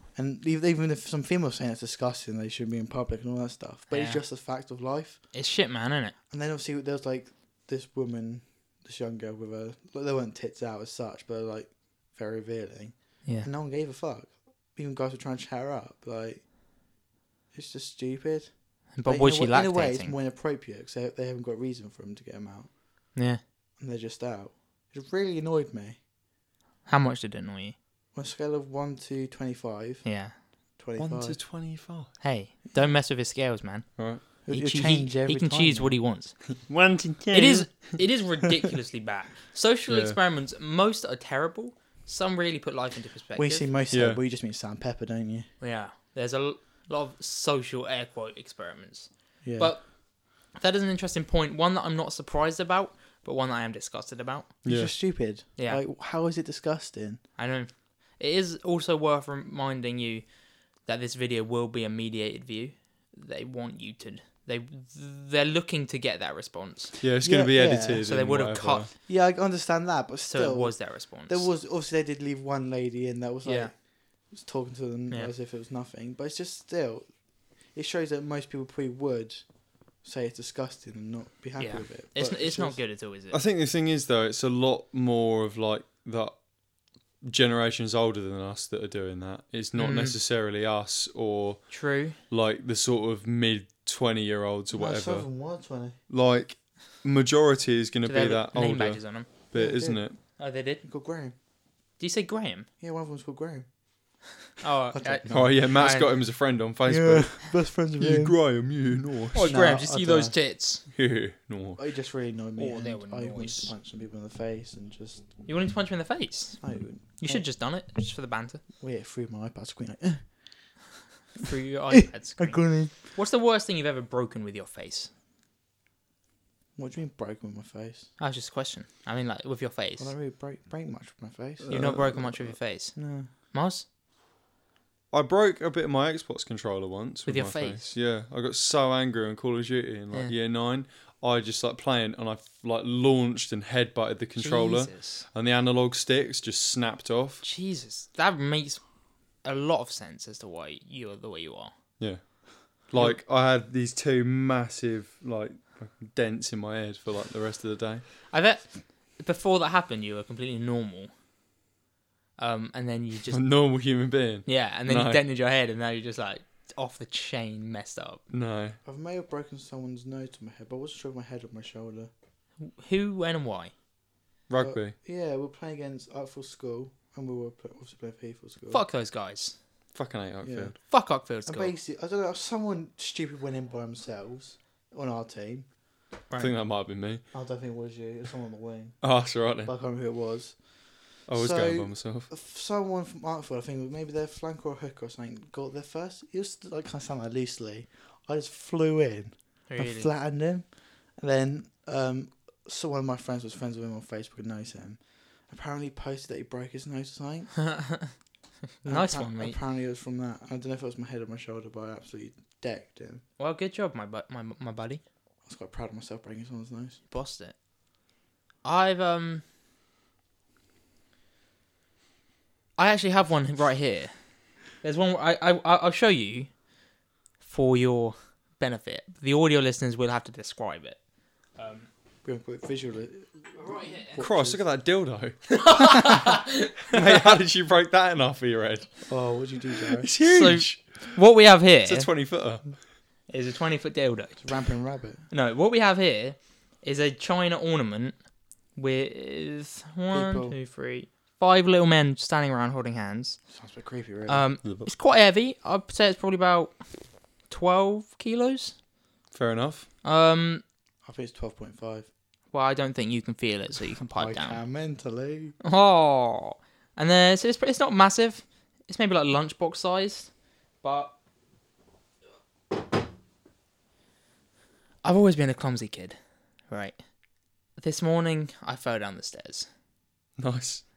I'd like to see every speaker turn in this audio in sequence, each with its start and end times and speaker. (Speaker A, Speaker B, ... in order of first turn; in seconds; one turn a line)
Speaker A: 0.1-5.2
Speaker B: 3.9-4.2
Speaker B: 5.3-6.1
Speaker A: 6.3-16.5
Speaker A: 17.5-22.8
Speaker B: 18.9-20.1
Speaker B: 23.1-23.4
Speaker A: 23.8-26.0
Speaker B: 26.9-27.8
Speaker A: 28.1-30.1
Speaker B: 30.0-30.4
Speaker A: 30.8-31.4
Speaker C: 31.0-32.1
Speaker B: 32.2-36.4
Speaker C: 34.0-34.2
Speaker A: 34.5-36.0
Speaker C: 36.6-38.0
Speaker B: 37.3-43.7
Speaker C: 39.9-40.1
Speaker A: 43.4-45.5
Speaker C: 43.9-44.2
Speaker B: 45.6-54.5
Speaker A: 49.4-49.8
Speaker C: 54.6-54.9
Speaker A: 54.6-57.2
Speaker B: 57.4-66.9
Speaker C: 67.0-68.9
Speaker A: 67.2-68.1
Speaker B: 68.0-69.0
Speaker A: 69.0-82.8
Speaker B: 70.3-71.5
Speaker B: 73.4-73.7
Speaker B: 81.6-83.4
Speaker C: 83.3-86.5
Speaker C: 87.2-95.3
Speaker B: 89.8-90.1
Speaker B: 91.7-92.2
Speaker A: 94.7-96.0
Speaker C: 96.1-100.2
Speaker B: 98.1-99.3
Speaker A: 99.5-100.3
Speaker B: 100.4-100.8
Speaker A: 100.8-101.3
Speaker B: 102.0-102.7
Speaker A: 102.8-103.7
Speaker B: 104.6-106.1
Speaker A: 104.9-105.6
Speaker C: 105.3-109.5
Speaker A: 106.9-108.4
Speaker A: 109.3-110.4
Speaker B: 109.3-110.8
Speaker C: 110.9-111.8
Speaker A: 111.8-115.3
Speaker B: 112.6-113.7
Speaker B: 115.5-116.6
Speaker A: 116.6-117.4
Speaker B: 117.2-118.6
Speaker A: 118.8-120.3
Speaker B: 121.4-125.1
Speaker A: 121.9-122.9
Speaker A: 126.8-128.1
Speaker B: 128.2-130.1
Speaker A: 130.0-133.3
Speaker C: 131.6-132.0
Speaker B: 131.7-133.8
Speaker C: 135.1-147.4
Speaker B: 137.3-137.9
Speaker B: 144.4-145.2
Speaker B: 147.4-148.8
Speaker B: 149.4-151.7
Speaker C: 152.0-158.1
Speaker B: 158.3-161.1
Speaker B: 162.4-163.4
Speaker C: 163.3-165.2
Speaker B: 164.4-168.2
Speaker C: 168.3-168.8
Speaker A: 168.8-172.1
Speaker B: 172.6-173.7
Speaker C: 174.5-174.9
Speaker A: 174.6-178.8
Speaker B: 178.7-179.6
Speaker C: 179.9-180.8
Speaker A: 180.4-180.7
Speaker B: 180.9-181.7
Speaker A: 181.4-185.7
Speaker C: 186.4-187.2
Speaker A: 187.3-190.6
Speaker C: 189.0-189.7
Speaker C: 191.3-192.3
Speaker A: 191.3-207.6
Speaker B: 199.7-200.1
Speaker B: 207.6-208.1
Speaker B: 208.8-209.6
Speaker A: 208.8-213.2
Speaker B: 213.4-215.0
Speaker A: 215.4-217.0
Speaker B: 217.1-217.5
Speaker B: 218.6-219.4
Speaker B: 222.8-224.1
Speaker B: 224.8-226.5
Speaker B: 227.4-231.0
Speaker B: 231.6-231.9
Speaker A: 232.2-234.6
Speaker B: 233.6-234.2
Speaker C: 234.2-235.4
Speaker B: 235.5-237.3
Speaker C: 236.9-239.1
Speaker A: 239.1-240.1
Speaker C: 239.9-241.1
Speaker B: 240.2-242.1
Speaker C: 241.8-242.7
Speaker B: 243.3-244.4
Speaker A: 244.4-245.2
Speaker B: 245.3-248.2
Speaker B: 248.7-253.4
Speaker A: 250.1-250.6
Speaker A: 253.5-254.4
Speaker B: 254.3-256.8
Speaker B: 257.5-258.8
Speaker C: 259.3-259.9
Speaker B: 260.0-260.6
Speaker A: 261.1-262.1
Speaker B: 262.5-264.6
Speaker A: 264.1-265.6
Speaker B: 265.6-270.3
Speaker B: 270.8-271.1
Speaker B: 275.0-276.2
Speaker B: 276.7-277.0
Speaker B: 277.8-279.7
Speaker C: 280.4-280.8